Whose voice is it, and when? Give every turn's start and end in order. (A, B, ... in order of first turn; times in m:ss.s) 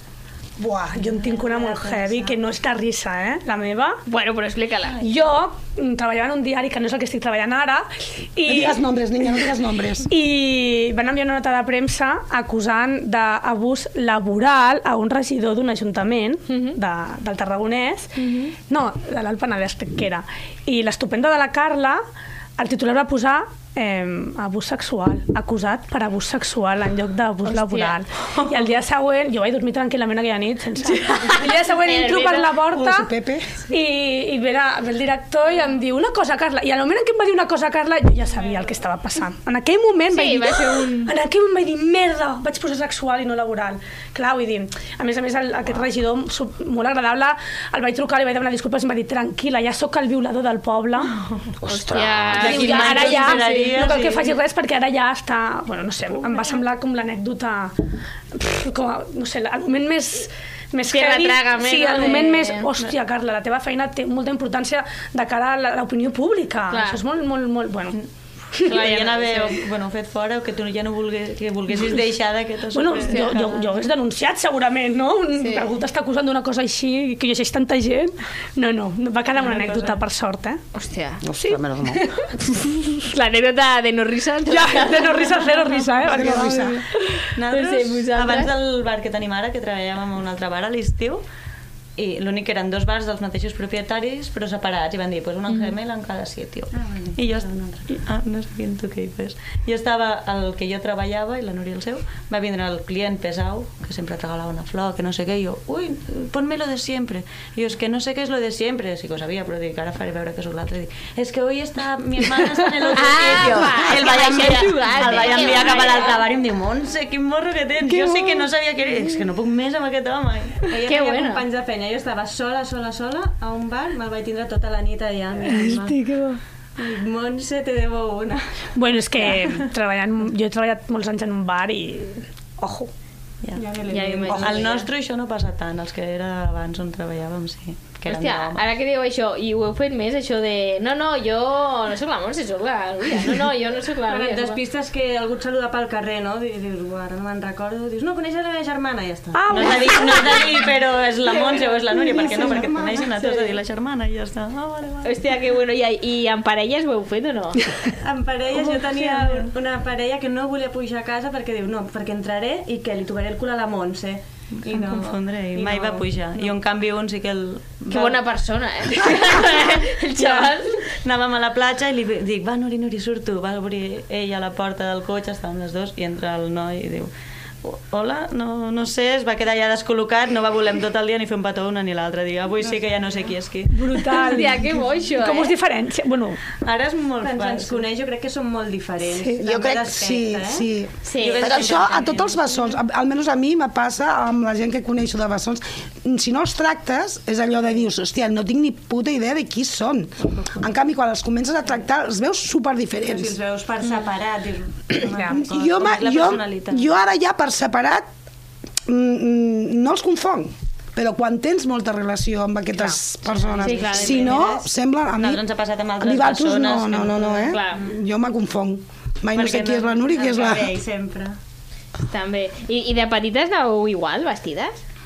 0:00.6-0:04.0 A
0:01.1-0:02.4 B
0:04.1-0:05.0 C
0:05.0-0:09.4 A
0:08.4-0:10.1 D
0:10.1-0:22.0 A
0:16.5-0:16.8 C
0:18.2-0:18.5 C
0:22.6-0:33.1 A
0:27.4-0:28.4 C
0:30.8-0:32.6 C
0:32.7-0:33.6 D
0:33.7-0:51.1 A
0:40.1-0:41.1 C
0:51.6-0:52.6 D
0:51.7-0:53.8 C
0:52.4-0:54.4 E
0:52.4-0:57.7 A
0:58.3-1:08.0 A
1:00.8-1:02.7 C
1:06.7-1:07.0 C
1:08.6-1:13.4 E
1:08.6-1:09.6 C
1:12.7-1:20.6 A
1:13.0-1:13.6 C
1:15.4-1:15.6 C
1:19.4-1:20.0 E
1:20.7-1:21.2 C
1:21.2-1:22.0 D
1:21.4-1:22.6 A
1:23.1-1:28.5 C
1:24.5-1:26.8 A
1:26.1-1:26.8 D
1:27.4-1:31.2 E
1:32.0-2:00.8 E
1:35.5-1:35.7 C
1:36.7-1:37.9 B
1:52.7-1:53.9 B
1:52.9-1:56.2 C
1:53.8-1:54.4 D
1:55.0-1:56.4 B
1:57.9-1:58.4 A
2:00.7-2:06.0 B
2:00.9-2:01.4 C
2:05.4-2:06.4 A
2:06.8-2:08.6 B
2:08.8-2:12.9 A
2:13.5-2:14.9 B
2:13.9-2:14.8 C
2:14.3-2:18.6 E
2:18.1-2:24.6 C
2:24.1-2:30.1 B
2:29.3-2:30.7 A
2:29.5-2:35.2 E
2:31.3-2:33.6 B
2:32.1-2:33.0 D
2:32.2-2:32.5 A
2:35.0-2:37.6 C
2:38.0-2:46.5 B
2:38.5-2:39.5 E
2:44.6-2:48.2 E
2:47.9-2:50.8 C
2:50.2-2:57.1 E
2:57.6-3:04.4 E
3:02.6-3:03.2 B
3:03.7-3:06.4 A
3:04.1-3:05.6 C
3:06.6-3:07.8 E
3:07.2-3:10.7 B
3:09.0-3:09.4 A
3:09.4-3:23.3 D
3:11.0-3:11.6 C
3:11.2-3:12.6 E
3:11.4-3:12.1 B
3:23.0-3:26.0 B
3:24.9-3:28.1 D
3:25.1-3:25.4 A
3:25.2-3:26.9 E
3:28.9-3:35.4 D
3:33.5-3:34.5 E
3:33.6-3:34.4 C
3:33.6-3:34.5 B
3:35.2-3:37.5 E
3:36.0-3:40.8 D
3:37.4-3:37.8 C
3:39.3-3:40.7 E
3:40.2-3:41.3 B
3:42.0-3:44.8 C